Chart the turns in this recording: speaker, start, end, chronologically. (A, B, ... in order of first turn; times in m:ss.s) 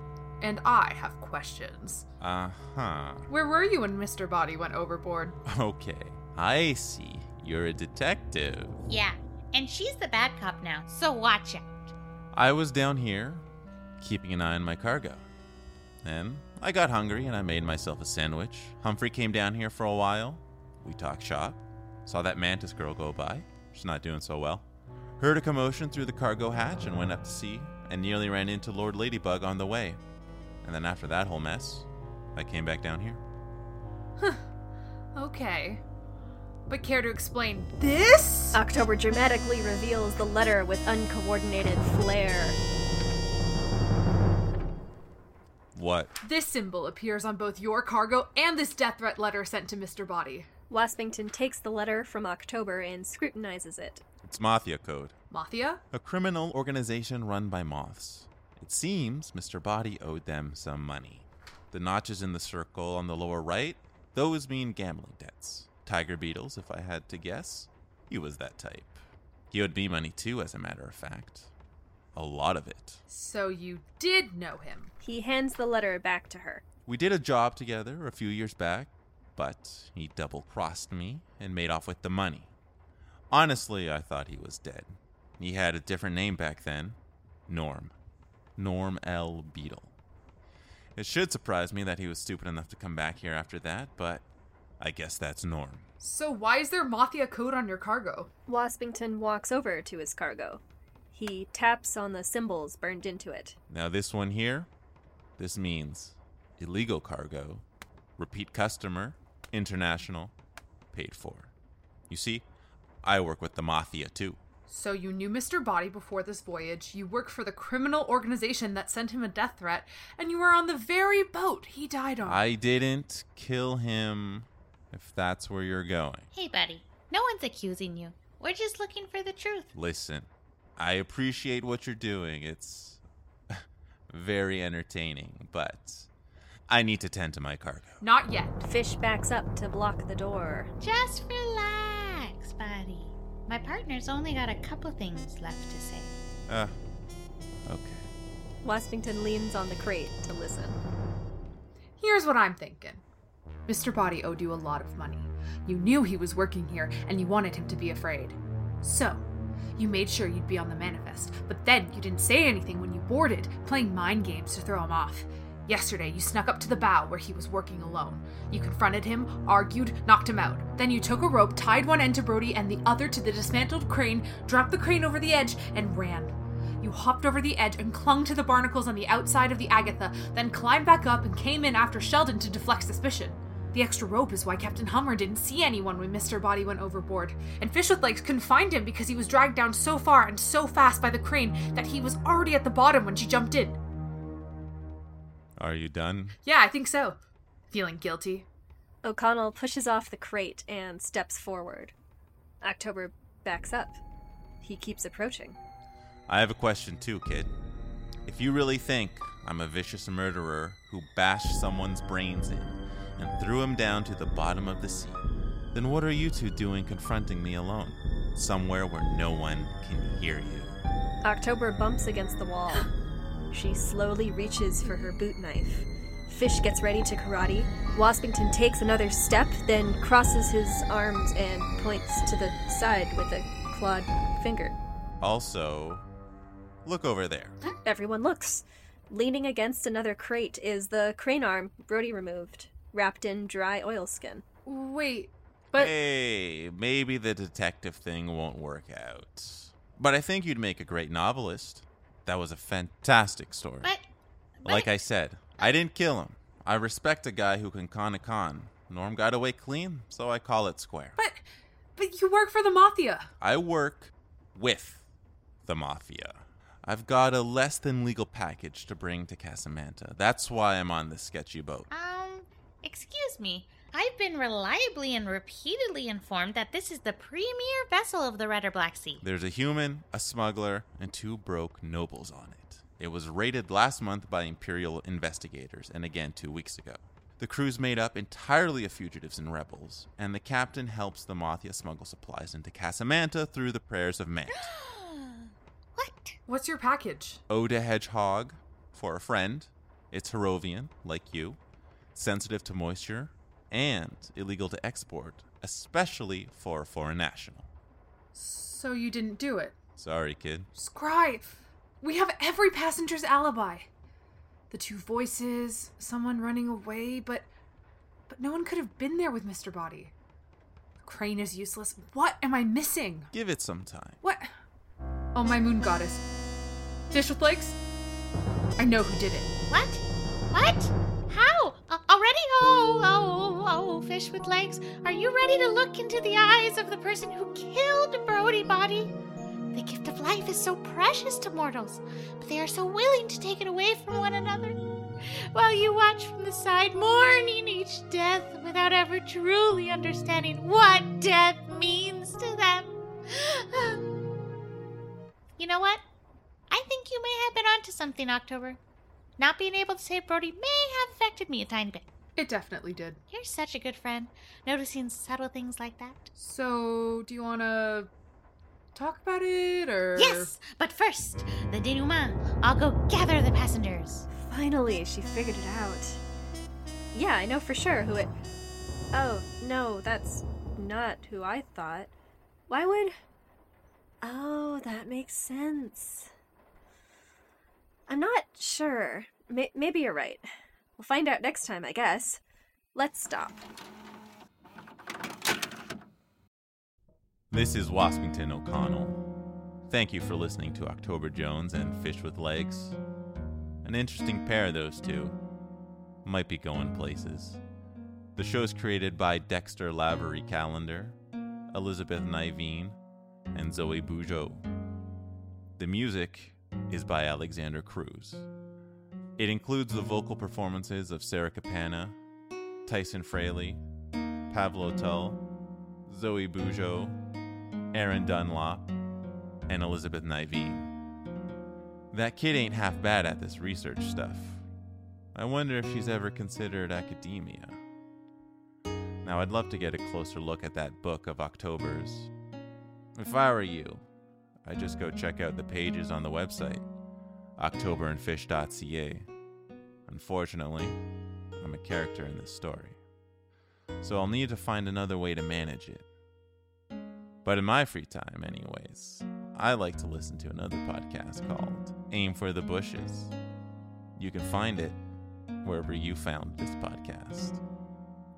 0:00.4-0:02.0 A
0:02.2-0:03.3 B
0:03.3-0:05.4 A
0:05.4-0:08.8 B
0:08.9-0:11.9 C
0:12.3-0:13.4 B
0:14.0-0:15.2 B
0:16.0-0:24.6 B
0:25.2-0:30.0 B
0:30.6-0:33.2 B
0:34.2-0:34.4 A
0:35.1-0:35.8 A
0:36.7-0:38.6 A
0:38.5-0:42.6 D
0:45.7-0:46.1 B
0:46.2-0:50.5 A
0:50.7-0:54.0 D
0:54.2-0:55.1 B
0:55.3-0:55.8 A
0:55.9-1:09.0 B
1:09.5-1:11.5 B
1:12.1-1:13.0 B
1:13.1-1:14.9 A
1:15.0-1:16.6 D
1:16.8-1:22.5 B
1:23.3-1:27.0 B
1:27.5-1:27.9 B
1:28.6-1:29.9 B
1:30.9-1:34.2 B
1:34.8-1:35.8 B
1:36.0-1:38.3 A
1:38.5-1:43.6 D
1:43.7-1:44.7 B
1:45.4-1:47.6 B
1:48.2-1:50.3 B
1:50.9-1:51.5 B
1:52.1-1:52.4 B
1:53.0-1:54.4 B
1:54.7-2:02.4 A
2:02.2-2:06.3 B
2:06.3-2:09.7 C
2:09.7-2:16.1 B
2:16.7-2:18.0 B
2:18.0-2:18.6 A
2:18.6-2:20.7 D
2:20.8-2:26.2 C
2:26.5-2:26.7 B
2:27.7-2:28.1 B
2:28.6-2:30.8 D
2:32.0-2:33.0 A
2:33.7-2:39.2 A
2:39.8-3:13.8 A
3:15.6-3:16.4 B
3:16.4-3:17.2 A
3:17.7-3:18.4 A
3:19.0-3:21.9 D
3:22.6-3:24.0 D
3:24.6-3:25.6 D
3:26.3-3:27.5 B
3:28.2-3:40.8 B
3:41.2-3:42.9 D
3:43.5-3:54.8 D
3:55.2-3:56.0 B
3:56.8-3:57.5 B
3:57.8-4:04.4 D
4:04.6-4:05.9 A
4:05.7-4:13.9 B
4:14.6-4:14.9 C
4:14.6-4:21.2 B
4:21.2-4:21.4 A
4:22.0-4:23.3 A
4:23.4-4:25.0 B
4:25.6-4:31.9 B
4:31.9-4:39.2 C
4:39.2-4:54.7 B
4:54.5-4:56.4 C
4:56.5-4:57.4 A
4:57.5-5:01.6 B
5:02.1-5:07.7 B
5:08.3-5:09.7 A
5:10.0-5:10.7 B
5:10.7-5:13.9 A
5:14.7-5:17.5 A
5:18.3-5:20.1 A
5:21.0-5:23.3 A
5:23.3-5:24.2 B
5:24.2-5:24.5 A
5:25.3-5:26.2 A
5:27.1-5:27.8 A
5:28.8-5:29.5 A
5:29.7-5:39.1 C
5:39.7-5:54.0 C
5:55.6-5:56.0 C
5:56.7-5:58.8 C
5:59.4-6:02.1 C
6:02.4-6:03.2 A
6:03.3-6:06.3 C
6:06.4-6:08.1 A
6:08.9-6:10.5 A
6:10.2-6:14.3 C
6:14.3-6:16.2 D
6:17.1-6:18.3 D
6:19.1-6:22.1 D
6:22.7-6:23.2 D
6:24.2-6:26.3 D
6:28.1-6:30.4 D
6:31.0-6:32.4 D
6:32.9-6:33.6 D
6:37.5-6:39.2 B
6:39.9-6:43.0 B
6:43.8-6:45.4 B
6:46.2-6:47.6 B
6:48.4-6:51.2 B
6:51.7-6:53.0 B
6:53.5-6:54.6 B
6:55.8-6:58.4 B
6:59.4-7:02.2 B
7:02.8-7:03.8 B
7:04.5-7:05.4 B
7:06.1-7:07.2 B
7:07.9-7:08.9 B
7:09.7-7:10.9 B
7:12.1-7:14.6 B
7:15.3-7:17.8 B
7:19.2-7:22.3 B
7:23.2-7:24.0 B
7:24.6-7:26.8 B
7:27.6-7:29.3 B
7:30.1-7:31.0 B
7:31.6-7:33.0 B
7:34.0-7:36.0 B
7:37.4-7:43.3 B
7:44.2-7:45.0 B
7:45.6-7:47.6 B